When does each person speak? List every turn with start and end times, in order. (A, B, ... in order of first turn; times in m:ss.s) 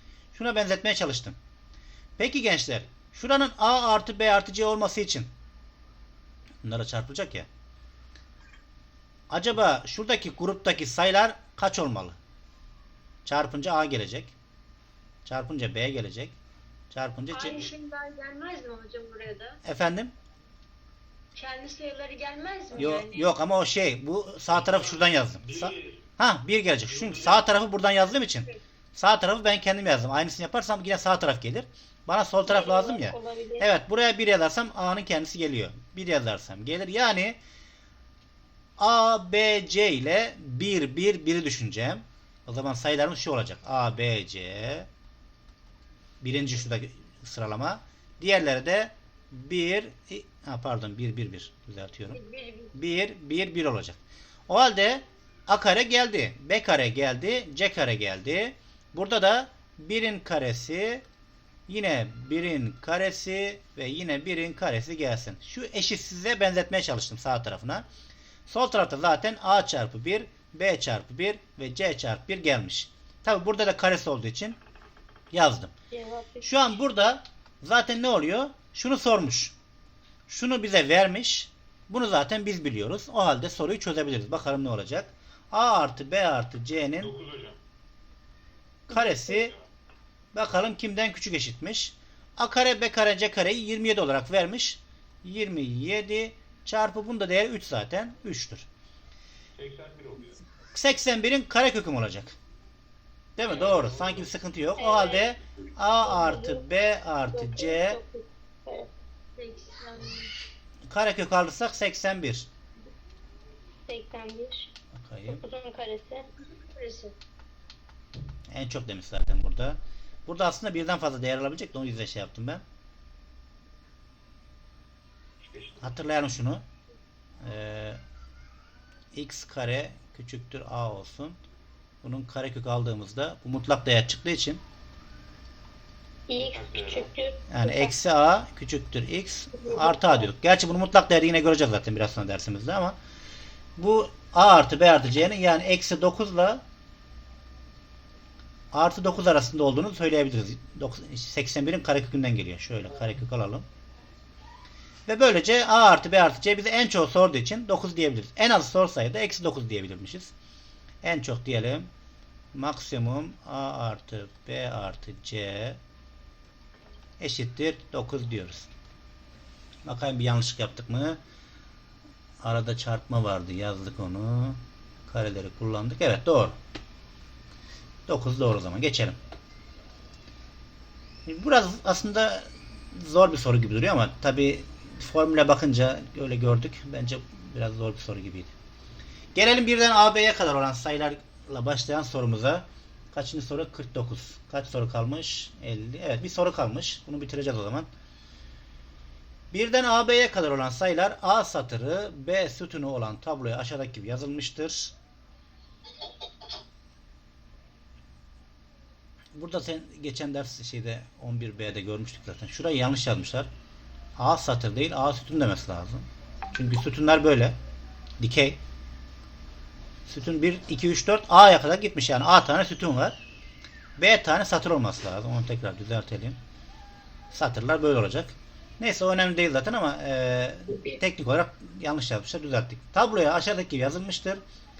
0:00.3-0:01.4 A
0:02.2-0:05.3 A
0:06.6-0:07.5 A
0:09.3-0:12.2 A
0:13.2-0:14.3 A
0:15.2-0:16.4 A
0:16.9-0:17.7 A
0:17.3-0:19.6 B
0:19.6-0:20.1 A
0:21.3-0:23.3 B
0:22.7-0:37.4 A
0:24.5-0:26.1 C
0:26.8-0:27.5 C
0:32.4-0:33.7 D
0:38.8-0:44.9 A
0:46.2-0:52.2 A
0:52.1-0:52.7 B
0:52.7-0:54.0 A
0:54.5-1:01.0 A
1:01.7-1:07.8 A
1:08.5-1:14.6 A
1:15.3-1:15.7 A
1:15.9-1:16.5 D
1:16.4-1:19.5 A
1:20.3-1:27.1 A
1:27.0-1:27.6 C
1:28.9-1:29.5 A
1:29.2-1:29.7 C
1:30.3-1:38.7 A
1:39.6-1:40.4 C
1:40.7-1:42.4 A
1:43.4-1:48.0 A
1:43.4-1:44.3 C
1:44.8-1:45.3 D
1:46.0-1:46.7 D
1:47.3-1:48.9 D
1:49.4-1:50.3 B
1:50.9-1:52.5 A
1:53.9-1:54.7 D
1:54.9-1:55.4 A
1:55.3-1:56.3 D
1:56.5-1:57.2 B
1:58.5-2:02.6 A
2:05.4-2:05.9 C
2:05.8-2:06.6 A
2:07.4-2:08.0 A
2:09.1-2:11.4 A
2:12.0-2:14.6 A
2:16.3-2:17.9 D
2:16.4-2:17.1 C
2:17.5-2:23.0 A
2:19.5-2:20.3 D
2:23.8-2:26.6 A
2:28.7-2:33.7 A
2:35.1-2:40.3 A
2:41.0-2:41.9 A
2:42.5-2:45.8 A
2:47.2-2:48.7 A
2:49.8-2:51.2 A
2:52.4-2:56.6 A
2:58.1-2:59.2 A
3:01.2-3:08.5 A
3:09.3-3:17.9 A
3:19.5-3:24.9 A
3:29.3-3:33.5 A
3:34.2-3:37.6 A
3:38.2-3:38.6 A
3:40.1-3:43.2 A
3:44.0-3:46.4 A
3:47.3-3:54.4 A